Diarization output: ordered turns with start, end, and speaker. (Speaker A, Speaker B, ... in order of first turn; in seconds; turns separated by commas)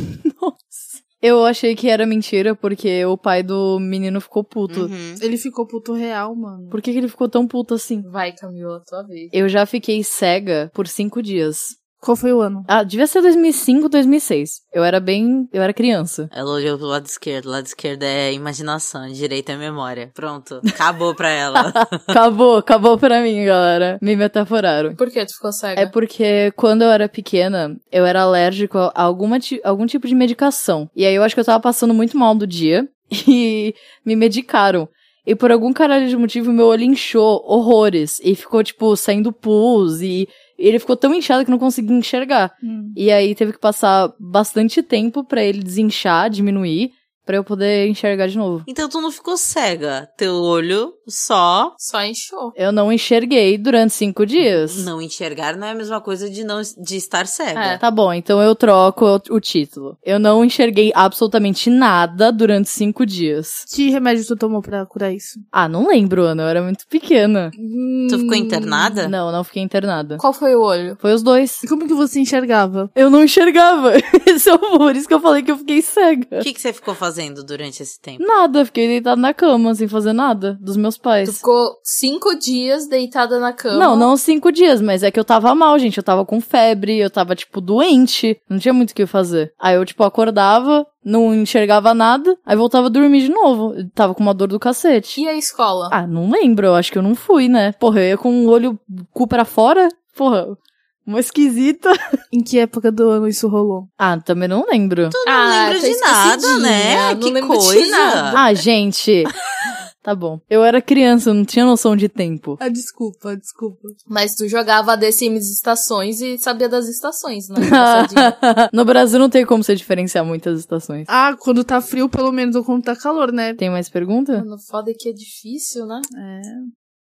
Speaker A: 0.2-4.9, Speaker B: 4.7-5.2, Speaker C: 5.2-6.8, Speaker A: 6.7-8.1, Speaker D: 8.0-9.3, Speaker A: 9.3-11.8, Speaker C: 12.0-12.7, Speaker A: 12.7-16.3, Speaker B: 16.3-22.1, Speaker A: 21.6-25.0, Speaker D: 25.0-25.9, Speaker A: 25.8-48.7, Speaker C: 42.6-43.0, Speaker B: 48.7-51.8, Speaker D: 51.8-52.5, Speaker A: 52.6-54.9, Speaker B: 54.4-57.8, Speaker D: 57.5-57.8, Speaker A: 57.8-63.7, Speaker C: 63.7-65.4, Speaker A: 65.5-67.5, Speaker C: 67.6-69.0, Speaker B: 68.1-69.1, Speaker A: 69.0-70.2, Speaker D: 70.2-71.0, Speaker A: 71.0-71.6, Speaker C: 71.6-72.9, Speaker A: 73.0-76.5, Speaker B: 76.4-78.3, Speaker A: 78.2-81.4, Speaker D: 81.2-84.1, Speaker A: 83.7-95.2, Speaker D: 95.2-96.0, Speaker A: 95.9-102.0, Speaker C: 102.3-103.9, Speaker A: 104.0-105.2, Speaker B: 105.1-108.4, Speaker D: 105.3-108.5, Speaker A: 108.3-109.3, Speaker A: 110.0-112.6, Speaker C: 112.6-114.0, Speaker D: 114.1-118.3, Speaker A: 117.6-121.1, Speaker C: 121.1-123.6, Speaker A: 123.6-124.5, Speaker D: 124.4-126.1, Speaker C: 126.2-126.7